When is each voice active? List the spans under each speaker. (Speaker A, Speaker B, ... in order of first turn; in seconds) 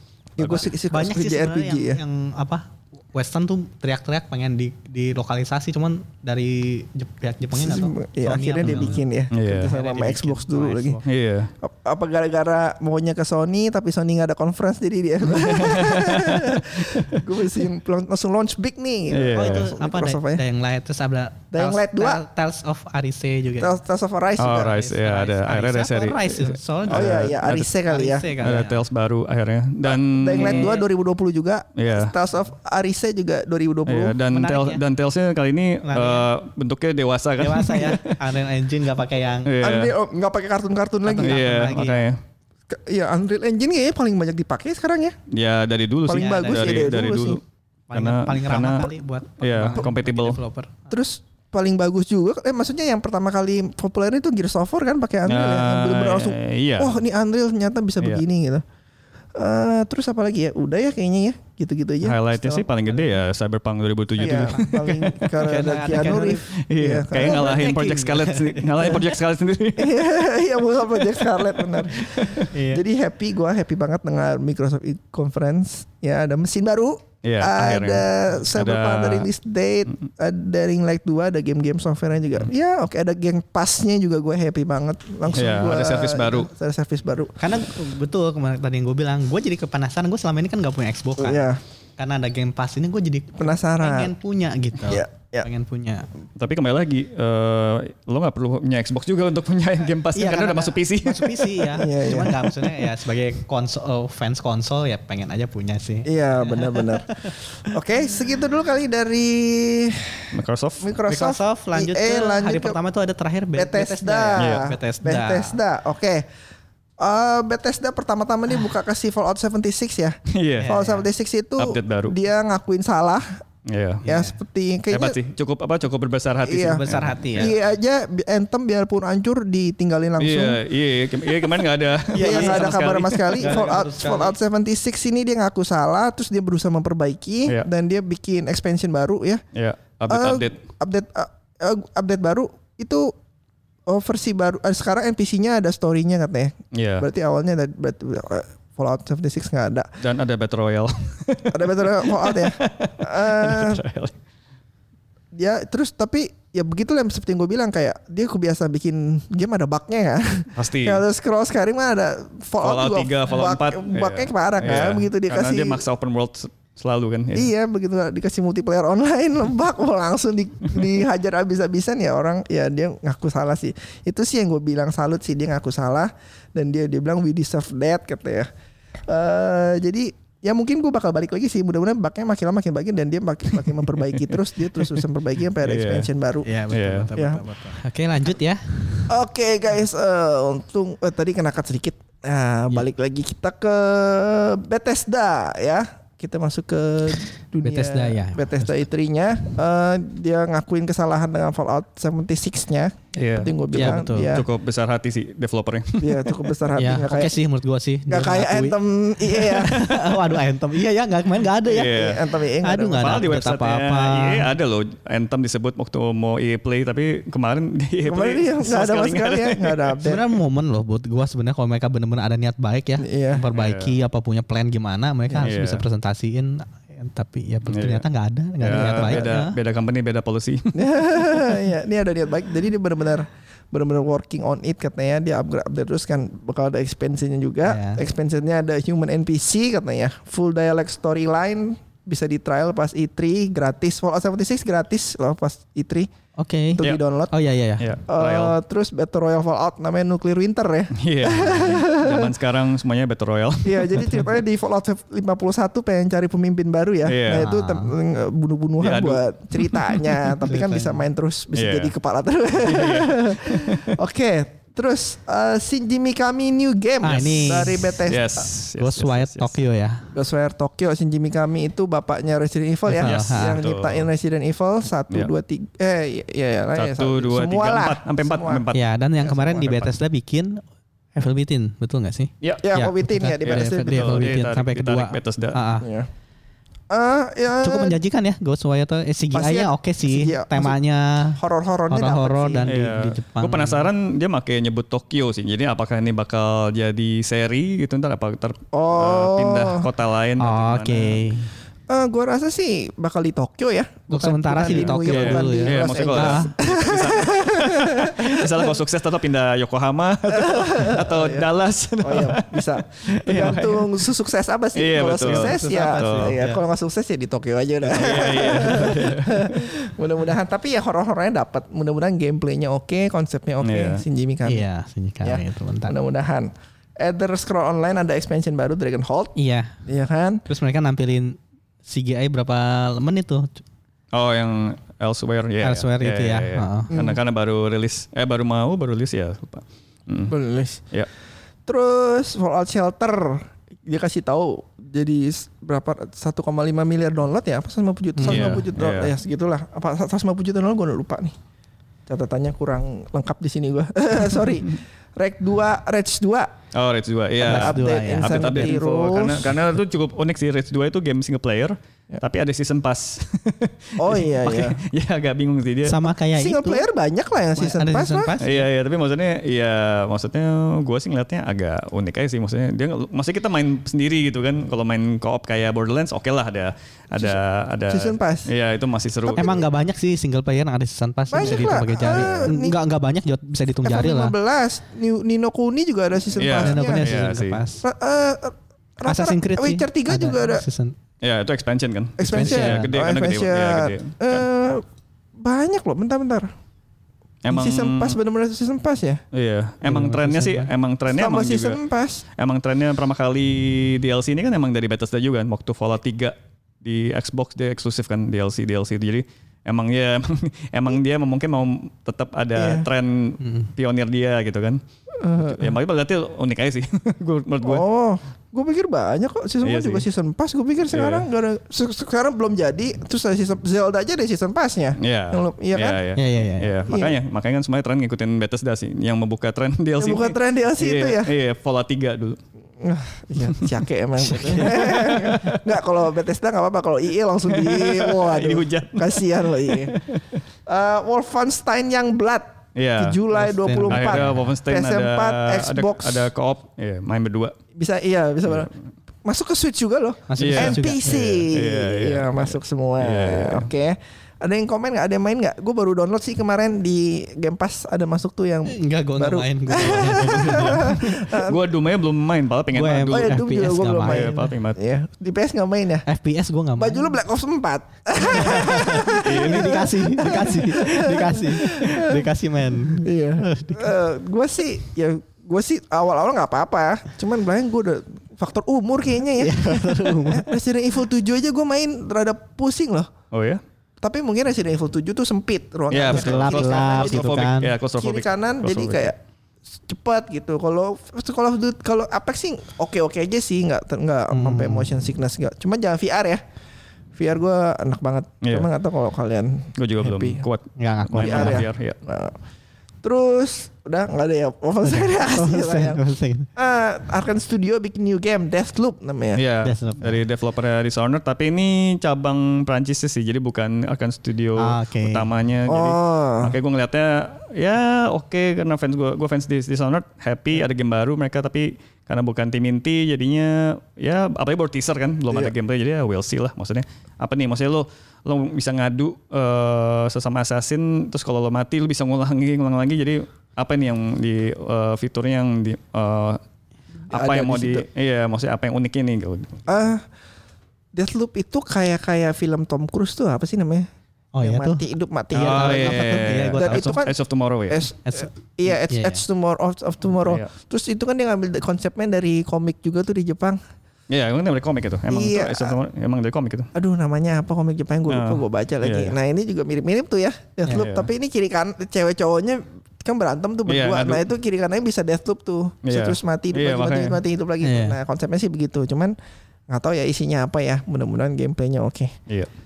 Speaker A: 0.4-2.0, 7.5-11.0, 11.6-20.4, 21.5-22.2, 23.6-24.8, 26.9-28.3, 29.8-34.2, 39.6-41.4, 42.7-45.1, 46.0-47.4, 50.9-58.6, 59.4-62.7, 64.2-67.6, 69.8-87.3, 91.2-91.6, 93.4-94.1, 94.9-95.5, 101.7-102.4, 106.0-112.8, 113.5-116.2, 117.0-120.2, 120.7-123.2, 124.0-125.2, 126.5-126.8, 127.4-130.6, 132.1-139.4, 140.1-143.1, 143.9-149.9, 151.5-153.8, 155.3-165.8, 167.3-178.5, 179.1-186.5, 187.1-187.4, 189.1-204.5, 206.0-207.3, 208.1-209.9, 211.9-213.2, 218.1-220.2, 223.0-223.4, 230.7-246.1, 246.7-247.3, 248.1-252.3, 253.6-268.4, 270.1-278.6, 282.6-284.3, 285.8-286.1, 286.9-288.0, 289.3-290.8, 291.4-292.7, 298.7-299.9, 301.9-308.7, 310.3-311.4, 312.0-324.7, 325.2-329.3, 329.8-330.4, 336.9-337.2, 340.3-340.8, 341.7-351.3, 352.1-356.5, 357.5-359.6, 364.0-364.8, 366.4-368.3, 377.1-378.5, 381.3-382.8, 383.8-387.0, 387.8-390.6, 392.2-394.8, 395.4-396.5, 397.5-399.2, 401.1-402.2, 412.6-412.9, 415.2-415.7, 417.6-426.0, 426.9-427.2, 430.0-431.3, 432.8-439.9, 440.7-446.3, 447.7-448.7, 449.2-461.7, 463.1-466.1, 466.8-472.3, 472.9-483.1, 484.0-487.3, 487.9-489.1, 489.9-496.4, 497.1-500.4, 501.2-502.4, 503.0-506.0, 506.6-509.4, 515.6-516.5, 537.1-537.9, 539.7-540.0, 540.9-543.9, 544.4-547.1, 547.7-553.6, 555.1-555.8, 556.7-569.1, 569.7-572.1
Speaker B: 0.4-0.7, 8.6-9.7, 11.0-11.5, 15.3-17.6, 19.1-19.7, 24.4-27.7, 28.4-30.7, 31.7-32.1, 33.9-38.1, 39.4-39.9, 41.2-42.2, 45.3-47.4, 47.9-50.4, 55.3-57.0, 62.0-65.3, 66.5-70.0, 71.1-72.5, 77.2-79.3, 85.3-86.5, 96.4-101.7, 110.3-110.9, 114.3-114.7, 120.3-120.7, 121.6-122.1, 123.7-124.0, 124.9-127.5, 130.2-133.7, 139.5-140.6, 146.7-147.1, 150.0-154.1, 160.6-161.0, 162.6-167.5, 185.6-186.1, 186.7-187.1, 203.2-206.5, 209.7-210.1, 211.6-212.2, 213.0-220.0, 223.5-223.9, 225.4-225.8, 227.7-228.0, 228.6-231.5, 247.8-248.6, 250.9-254.3, 257.1-257.5, 258.8-260.3, 261.5-261.9, 262.6-263.9, 268.1-269.5, 273.0-274.1, 276.7-279.9, 283.4-285.6, 292.6-301.2, 304.6-314.0, 314.7-316.4, 317.9-319.6, 323.6-324.0, 334.1-340.4, 348.2-349.1, 356.7-366.1, 368.4-379.6, 381.4-382.5, 386.3-387.6, 391.2-394.4, 397.4-398.2, 399.3-401.8, 402.4-414.8, 415.3-417.8, 419.6-420.1, 420.9-421.2, 425.0-432.4, 433.4-433.7, 434.4-435.7, 437.5-440.4, 442.7-443.2, 443.9-447.5, 448.5-448.7, 450.4-453.7, 459.8-463.3, 464.0-464.8, 469.0-469.9, 483.3-483.6, 485.9-489.1, 498.4-498.7, 499.8-502.0, 509.3-536.4, 537.1-539.6, 545.3-547.8, 550.2-550.5, 554.1-556.7, 558.1-559.1, 560.7-561.1, 563.7-564.2, 565.8-567.2
Speaker C: 0.8-9.0, 9.6-11.0, 19.4-23.7, 24.6-28.8, 30.3-30.8, 34.3-34.8, 35.8-36.3, 37.4-39.5, 41.0-42.0, 46.1-47.1, 47.9-50.9, 64.2-64.8, 65.4-66.5, 67.1-69.1, 72.3-72.8, 87.4-91.5, 92.0-96.1, 100.1-107.4, 111.1-115.6, 120.6-121.0, 124.0-124.4, 126.6-127.5, 132.1-134.3, 186.4-189.1, 197.6-198.7, 203.7-204.3, 206.7-214.5, 220.0-229.6, 237.7-238.0, 246.4-247.8, 257.3-257.9, 260.4-261.0, 267.0-268.1, 268.8-270.1, 272.9-273.6, 278.7-280.6, 281.1-285.9, 287.6-291.4, 291.9-293.9, 300.4-301.5, 304.1-306.5, 315.2-316.6, 324.4-326.0, 329.4-329.8, 330.4-333.6, 335.6-336.9, 348.1-348.6, 357.4-358.7, 365.8-366.9, 367.5-368.7, 379.3-384.3, 386.5-387.8, 389.0-390.9, 392.2-392.9, 399.8-400.7, 413.4-413.7, 426.1-426.7, 434.2-434.8, 443.3-444.5, 450.3-451.5, 458.7-461.1, 462.7-464.5, 466.0-467.1, 468.2-473.9, 479.4-480.5, 486.0-487.7, 494.3-494.9, 500.8-501.6, 504.8-506.5, 509.6-510.2, 514.6-515.3, 544.3-547.0, 548.1-549.2, 567.6-568.0